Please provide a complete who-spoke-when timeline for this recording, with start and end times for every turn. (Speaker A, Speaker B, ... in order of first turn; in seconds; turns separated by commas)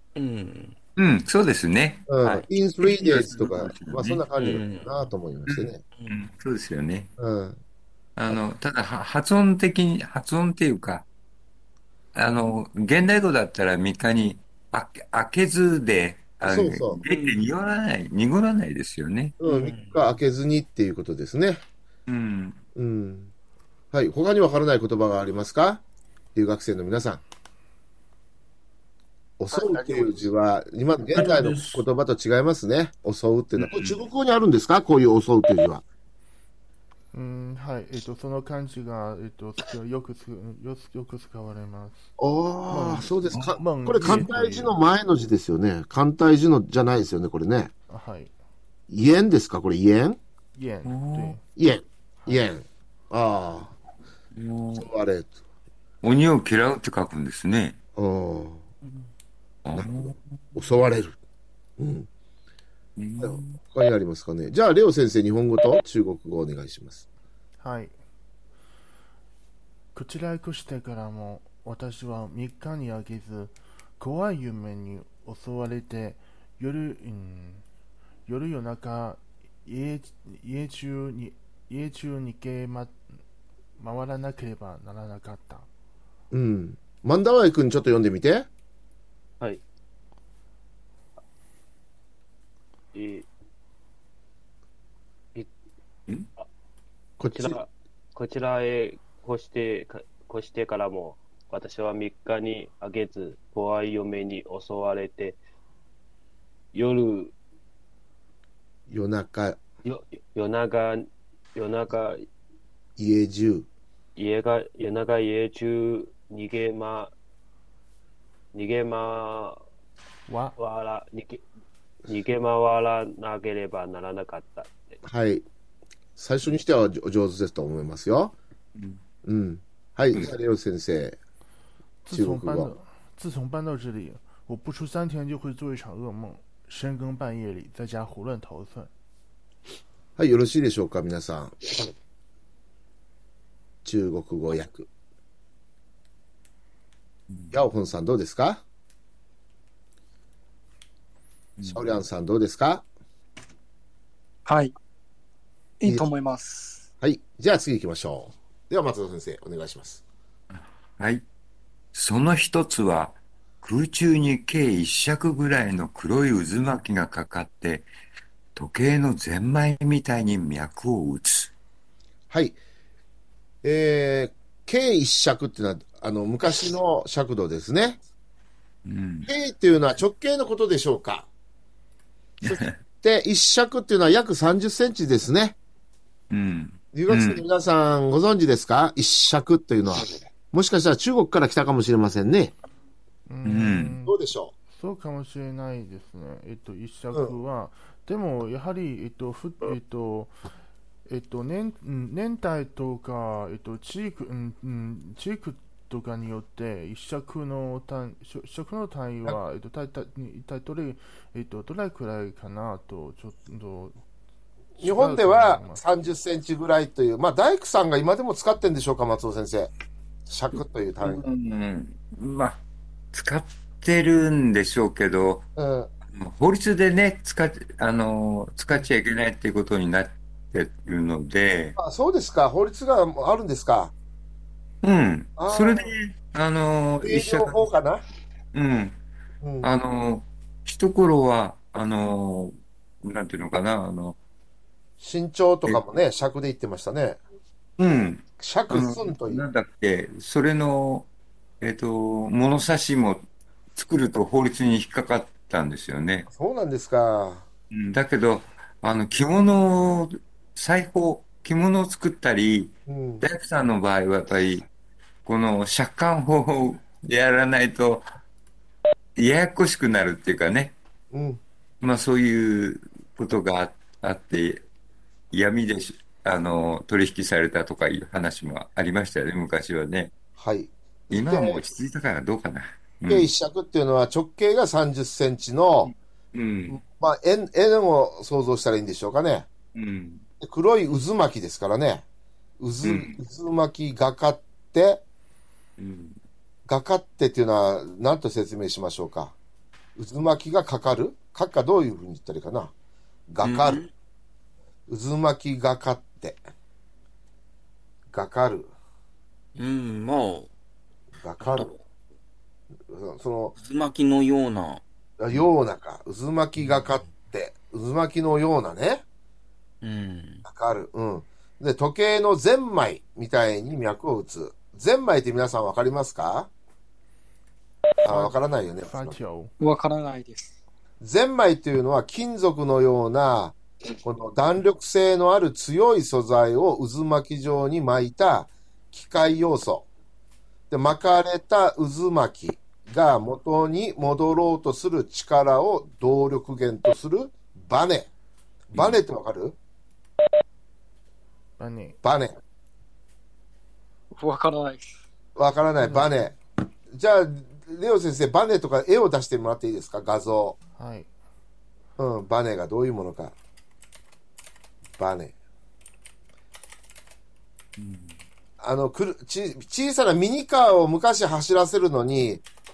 Speaker A: 0.1-0.8, Speaker B: 1.0-2.1, Speaker C: 2.1-5.8, Speaker A: 2.2-2.5, Speaker B: 3.0-4.6, Speaker A: 3.0-3.5, Speaker A: 4.3-4.9, Speaker B: 5.5-7.1, Speaker A: 6.0-6.3, Speaker C: 7.2-7.6, Speaker B: 8.2-11.0, Speaker B: 12.1-19.3, Speaker C: 16.4-17.0, Speaker A: 17.1-17.4, Speaker C: 19.4-21.6, Speaker A: 19.4-20.2, Speaker B: 22.1-22.6, Speaker C: 22.8-23.3, Speaker C: 23.9-25.8, Speaker C: 26.3-27.2, Speaker C: 29.4-35.8, Speaker B: 31.1-31.8, Speaker B: 33.6-34.0, Speaker D: 37.1-42.0, Speaker C: 42.2-47.7, Speaker D: 42.7-44.7, Speaker B: 43.3-43.6, Speaker D: 47.9-48.3, Speaker C: 48.9-50.2, Speaker D: 50.5-51.4, Speaker B: 50.9-51.4, Speaker C: 51.6-53.7, Speaker B: 54.4-54.8, Speaker C: 54.7-55.3, Speaker B: 56.0-57.8, Speaker C: 58.0-58.6, Speaker B: 59.6-60.2, Speaker C: 59.7-61.1, Speaker C: 61.8-62.1, Speaker B: 63.0-63.6, Speaker C: 63.2-67.0, Speaker D: 67.6-67.9, Speaker D: 69.9-77.6, Speaker D: 78.3-82.9, Speaker D: 83.8-85.7, Speaker C: 86.3-88.5, Speaker E: 92.9-93.3, Speaker C: 97.2-97.6, Speaker E: 97.3-105.4, Speaker E: 106.7-107.3, Speaker C: 108.9-109.6, Speaker E: 109.8-112.2, Speaker C: 113.0-113.7, Speaker E: 114.2-117.1, Speaker E: 118.5-119.6, Speaker D: 120.3-120.6, Speaker E: 120.6-121.4, Speaker E: 122.0-124.8, Speaker C: 125.0-125.5, Speaker C: 126.2-128.3, Speaker C: 129.2-131.2, Speaker D: 132.0-138.9, Speaker C: 132.1-132.7, Speaker C: 140.2-141.7, Speaker C: 143.8-144.9, Speaker C: 147.5-148.6, Speaker B: 151.6-151.8, Speaker C: 151.7-152.8, Speaker F: 154.4-154.7, Speaker F: 155.8-156.8, Speaker C: 157.0-160.0, Speaker B: 160.5-161.2, Speaker B: 161.9-167.9, Speaker B: 168.5-171.5, Speaker C: 172.3-172.6, Speaker C: 173.6-178.0, Speaker B: 178.8-179.3, Speaker C: 179.2-181.3, Speaker B: 182.4-182.7, Speaker C: 182.4-185.6, Speaker B: 186.3-187.4, Speaker C: 186.9-192.5, Speaker D: 193.3-194.1, Speaker B: 193.4-194.0, Speaker C: 194.0-194.5, Speaker D: 194.7-200.3, Speaker D: 201.1-213.9, Speaker C: 214.8-219.7, Speaker D: 214.8-215.8, Speaker C: 220.3-221.2, Speaker B: 221.0-222.6, Speaker B: 223.1-225.4, Speaker C: 225.6-225.9, Speaker B: 226.1-231.8, Speaker C: 231.8-233.9, Speaker B: 234.8-237.6, Speaker C: 235.4-235.9, Speaker C: 237.0-238.0, Speaker B: 238.5-239.0, Speaker C: 239.4-239.7, Speaker B: 239.6-244.2, Speaker C: 245.0-247.2, Speaker B: 247.8-251.1, Speaker C: 248.4-249.4, Speaker B: 251.6-253.2, Speaker B: 253.7-256.3, Speaker C: 256.3-257.5, Speaker B: 257.7-264.7, Speaker C: 262.9-263.2, Speaker B: 265.2-268.1, Speaker B: 269.2-270.7, Speaker C: 271.1-271.4, Speaker B: 271.8-274.6, Speaker B: 275.3-280.1, Speaker C: 280.4-281.6, Speaker B: 281.1-283.3, Speaker C: 283.1-285.9, Speaker B: 285.8-286.8, Speaker C: 286.7-289.5, Speaker B: 289.7-290.2, Speaker C: 290.4-292.0, Speaker C: 292.6-295.0, Speaker B: 292.8-293.1, Speaker B: 295.8-296.1, Speaker C: 296.7-299.3, Speaker C: 299.9-302.7, Speaker C: 303.3-303.8, Speaker A: 303.4-303.9, Speaker C: 304.9-306.4, Speaker C: 308.1-308.7, Speaker A: 309.6-310.5, Speaker C: 311.2-311.7, Speaker A: 311.4-311.8, Speaker C: 312.9-313.6, Speaker A: 313.6-314.8, Speaker C: 315.2-319.0, Speaker A: 319.8-320.4, Speaker C: 320.4-326.5, Speaker C: 328.0-329.2, Speaker D: 328.1-329.5, Speaker F: 329.6-330.5, Speaker C: 331.0-339.9, Speaker C: 340.7-348.1, Speaker C: 348.7-349.6, Speaker B: 348.7-349.0, Speaker D: 351.6-352.0, Speaker C: 352.0-352.4, Speaker F: 354.1-354.9, Speaker C: 355.4-356.4, Speaker D: 355.8-356.1, Speaker C: 356.9-360.6, Speaker D: 360.8-361.1, Speaker C: 362.0-363.3, Speaker C: 365.0-365.3, Speaker B: 367.8-368.1, Speaker C: 368.6-372.4